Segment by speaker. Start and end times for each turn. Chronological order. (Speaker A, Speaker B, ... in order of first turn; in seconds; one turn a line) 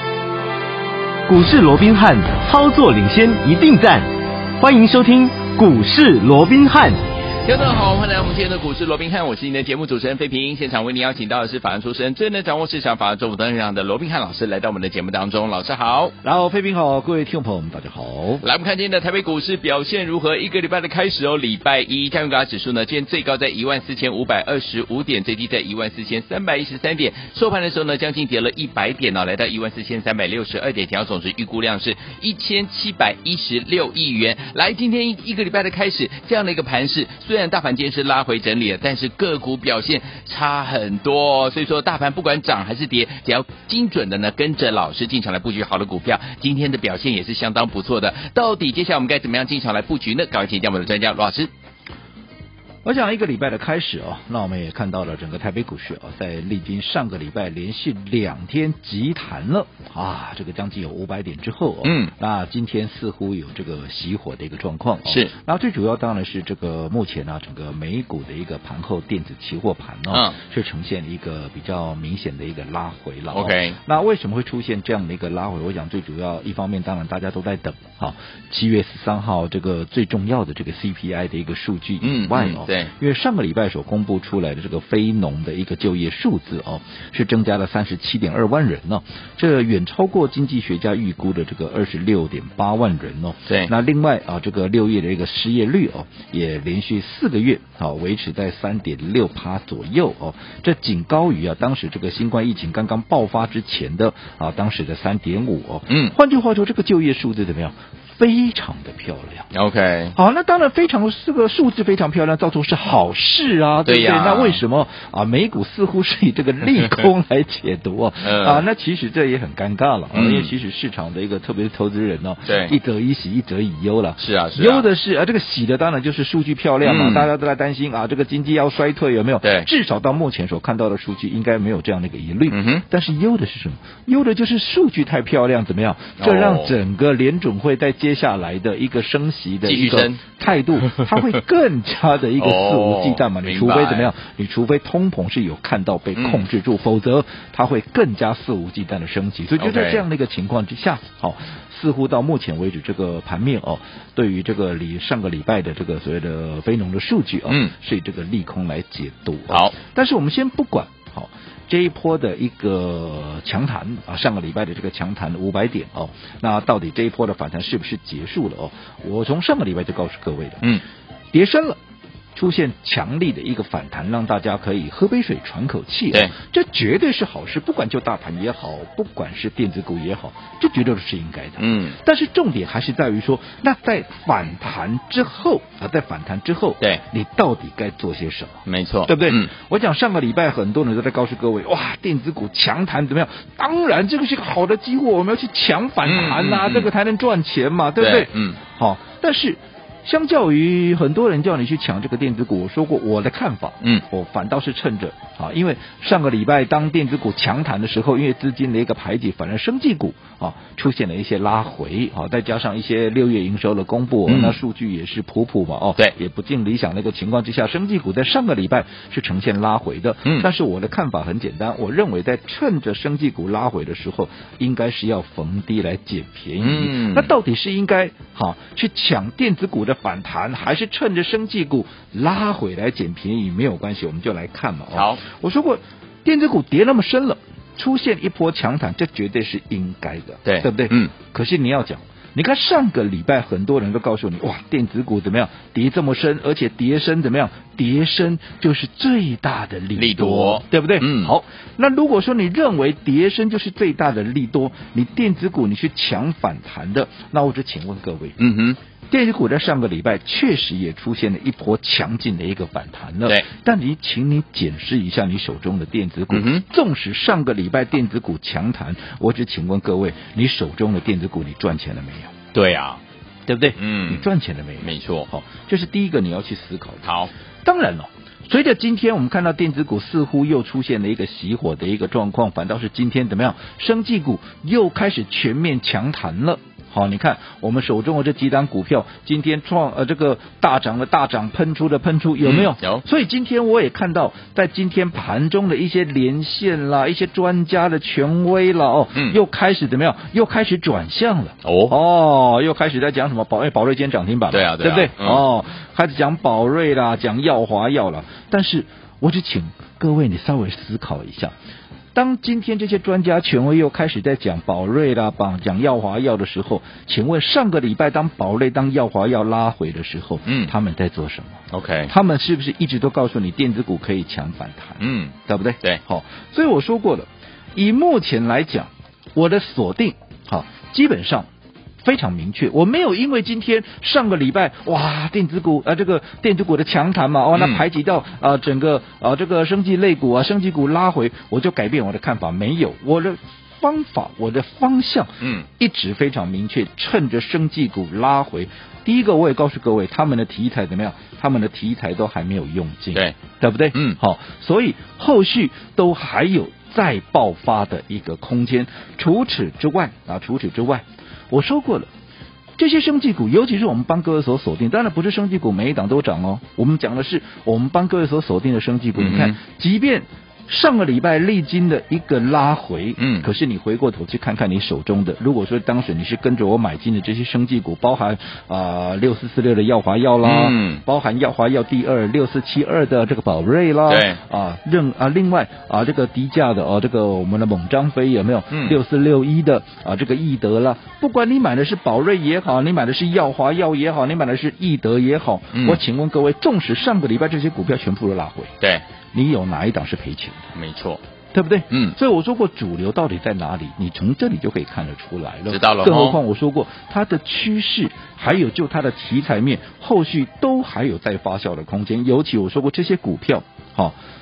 Speaker A: 1.3-7.0
Speaker B: 7.4-16.1
Speaker C: 16.2-18.4
Speaker B: 18.4-51.5
Speaker C: 52.8-109.5
Speaker B: 61.8-62.1
Speaker B: 65.0-65.3
Speaker B: 70.1-70.4
Speaker B: 73.3-73.8
Speaker B: 82.0-82.9
Speaker B: 105.9-106.1
Speaker B: 109.5-110.1
Speaker C: 110.1-170.6
Speaker B: 113.8-114.6
Speaker B: 118.2-118.6
Speaker B: 120.1-120.5
Speaker B: 122.4-122.7
Speaker B: 124.2-124.8
Speaker B: 126.8-127.3
Speaker B: 129.4-129.7
Speaker B: 132.5-132.8
Speaker B: 136.2-136.7
Speaker B: 139.6-140.2
Speaker B: 140.8-141.2
Speaker B: 142.4-144.1
Speaker B: 146.2-146.4
Speaker B: 149.6-150.0
Speaker B: 157.5-157.7
Speaker B: 159.5-159.7
Speaker C: 171.3-171.8
Speaker C: 172.3-258.4
Speaker B: 181.6-182.0
Speaker B: 188.7-189.5
Speaker B: 196.0-196.9
Speaker B: 198.0-198.6
Speaker B: 214.2-214.6
Speaker B: 226.6-227.3
Speaker B: 234.9-235.2
Speaker B: 240.4-241.1
Speaker B: 249.9-251.3
Speaker B: 258.4-258.8
Speaker C: 259.1-272.3
Speaker B: 266.3-266.6
Speaker B: 272.5-273.0
Speaker C: 273.5-277.0
Speaker B: 273.8-274.3
Speaker B: 274.8-275.3
Speaker B: 277.0-277.3
Speaker C: 277.6-311.5
Speaker B: 292.4-293.0
Speaker B: 301.6-301.9
Speaker B: 304.5-305.4
Speaker C: 312.1-331.5
Speaker B: 320.4-320.7
Speaker B: 321.7-322.1
Speaker B: 325.0-326.0
Speaker C: 332.0-362.1
Speaker B: 337.5-337.8
Speaker B: 345.4-345.6
Speaker C: 362.8-398.7
Speaker B: 369.1-369.6
Speaker B: 373.2-373.5
Speaker B: 380.4-381.0
Speaker B: 384.1-384.4
Speaker B: 388.7-389.0
Speaker B: 395.7-396.0
Speaker C: 399.3-400.7
Speaker B: 400.8-401.2
Speaker C: 401.5-414.1
Speaker B: 401.9-402.2
Speaker B: 405.7-406.4